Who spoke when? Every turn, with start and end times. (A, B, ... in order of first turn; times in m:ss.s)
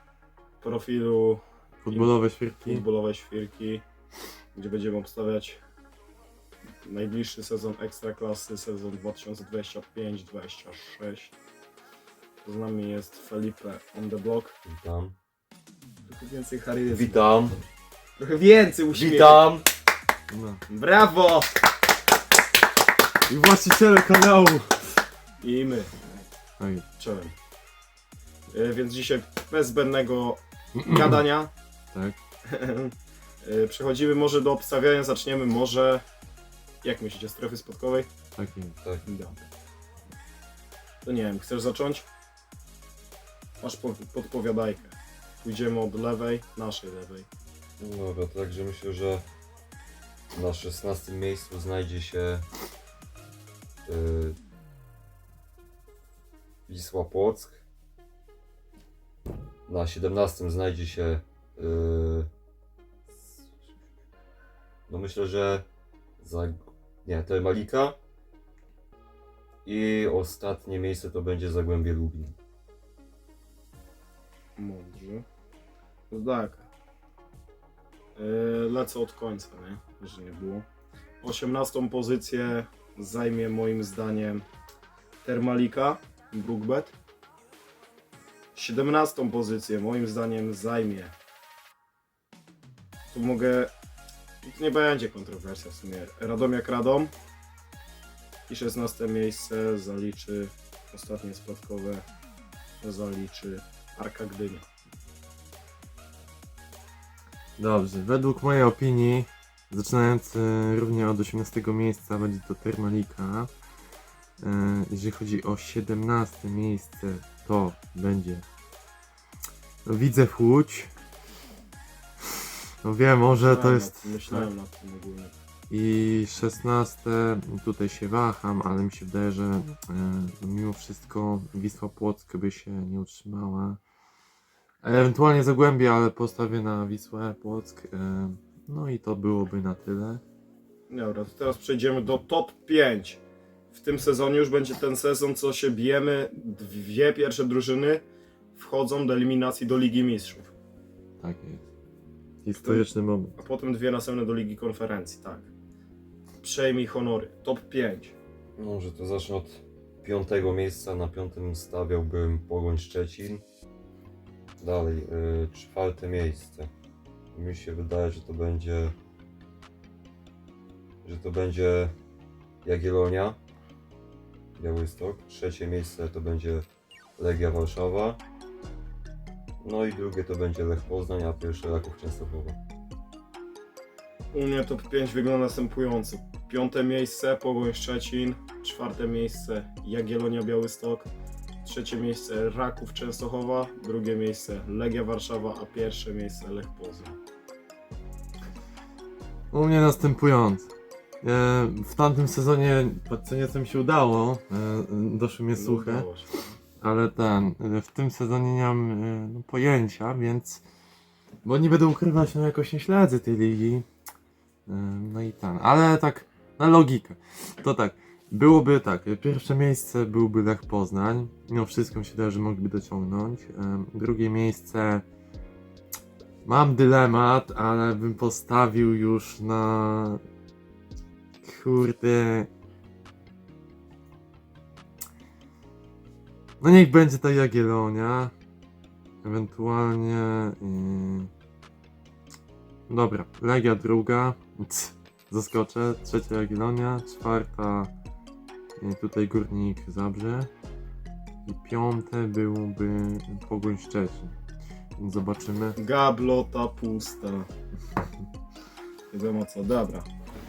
0:00.6-0:03.8 A
0:01.8-0:02.8 B
0:04.5-0:05.6 A
0:06.8-0:11.3 A
0:12.4-0:14.5 A
0:14.6-0:15.1 C
0:16.1-0:17.2 A
0:16.9-0:17.6 C
0:18.2-0:19.5 A
0:18.9-0:19.7 C
0:20.3-0:20.6 B
0:20.7-0:21.5 A
0:23.3-0:24.9 B
0:25.4-0:25.9 A
0:26.6-0:26.8 B
0:27.0-0:27.3 A
0:28.5-0:31.5 A
0:30.8-0:31.2 B
0:32.4-0:36.0 A
0:36.8-0:38.1 A
0:38.4-0:38.8 B
0:38.8-0:39.1 C
0:39.0-0:39.3 A
0:41.0-0:42.1 A
0:43.6-0:47.3 A
0:47.8-0:49.2 C
0:50.3-0:52.4 C
0:53.8-0:54.4 C
0:56.7-0:57.6 C
0:59.7-1:02.3 C
1:04.9-1:05.6 C
1:06.2-1:08.0 C
1:09.6-1:12.4 C
1:14.6-1:15.2 A
1:16.1-1:16.7 A
1:18.2-1:20.6 A
1:21.2-1:24.4 A
1:25.2-1:26.9 A
1:28.5-1:31.1 A
1:33.1-1:33.7 A
1:34.4-1:37.1 A
1:38.5-1:42.0 A
1:42.8-1:44.7 A
1:47.6-1:53.5 B
1:54.4-1:58.4 B
1:59.8-2:00.9 B
2:02.8-2:04.5 B
2:03.3-2:05.3 A
2:05.7-2:13.8 B
2:14.8-2:20.2 B
2:20.9-2:23.2 A
2:23.7-2:28.0 A
2:28.5-2:30.5 A
2:31.2-2:31.6 B
2:32.4-2:33.3 B
2:32.6-2:35.5 A
2:36.4-2:38.1 A
2:38.6-2:43.4 C
2:44.6-2:46.7 C
2:47.3-2:48.9 C
2:51.0-2:51.9 C
2:52.6-2:53.4 C
2:54.6-2:56.7 C
2:57.2-2:58.2 C
2:59.6-3:02.6 C
3:04.3-3:11.1 A
3:11.6-3:17.2 A
3:19.5-3:20.7 B
3:21.2-3:26.1 B
3:25.5-3:26.6 A
3:26.8-3:30.6 B
3:31.4-3:33.8 B
3:34.7-3:45.0 B
3:46.4-3:50.2 B
3:51.4-3:52.5 B
3:56.6-3:58.3 B
3:59.2-4:01.3 B
4:02.9-4:07.9 B
4:08.8-4:10.5 B
4:11.4-4:14.3 B
4:15.0-4:15.8 B
4:15.8-4:17.5 A
4:19.1-4:20.1 A